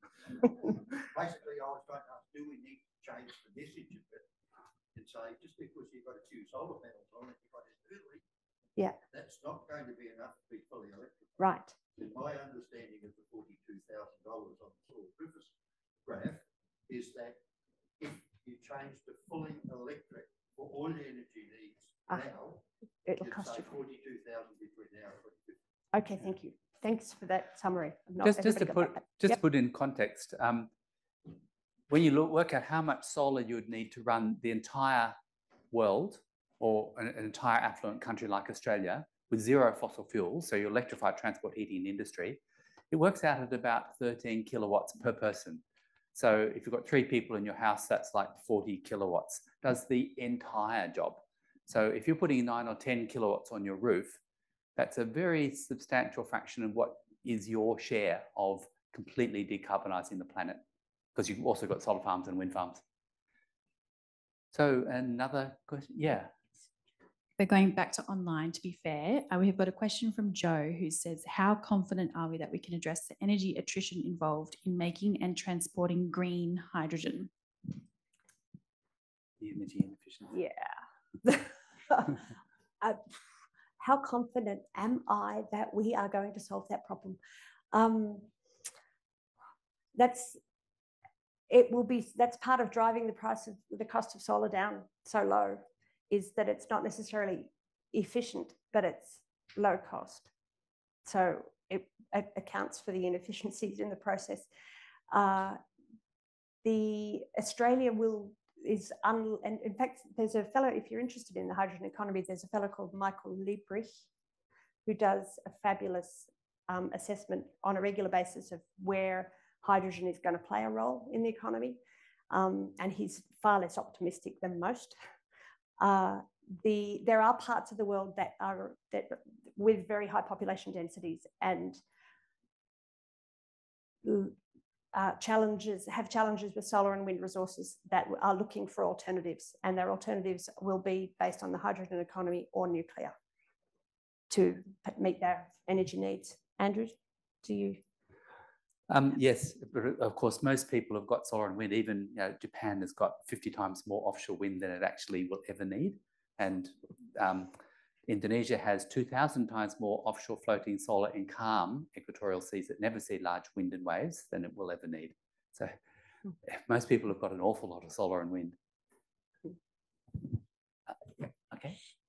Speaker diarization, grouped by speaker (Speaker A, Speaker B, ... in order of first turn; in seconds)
Speaker A: 1.0-4.3, 4.9-8.2, 9.1-11.4, 11.9-15.5, 16.1-17.4, 18.0-22.6, 23.2-25.6
Speaker B: 11.4-11.7, 23.1-23.7, 25.9-29.4, 80.3-82.2, 83.8-87.2, 87.7-88.3, 90.0-90.4, 91.5-100.3, 101.1-104.5, 105.1-105.6, 106.6-113.9, 114.9-121.8, 122.3-125.0, 125.8-131.8, 134.0-134.4, 134.9-143.1, 144.3-147.8
Speaker C: 28.2-30.7, 31.9-35.2, 35.7-42.4, 42.9-45.6, 46.1-54.2, 54.8-60.6, 61.1-62.8, 64.5-66.3, 79.4-80.4, 148.9-157.6, 158.1-165.8, 166.4-168.6, 171.5-171.8
Speaker D: 67.4-77.3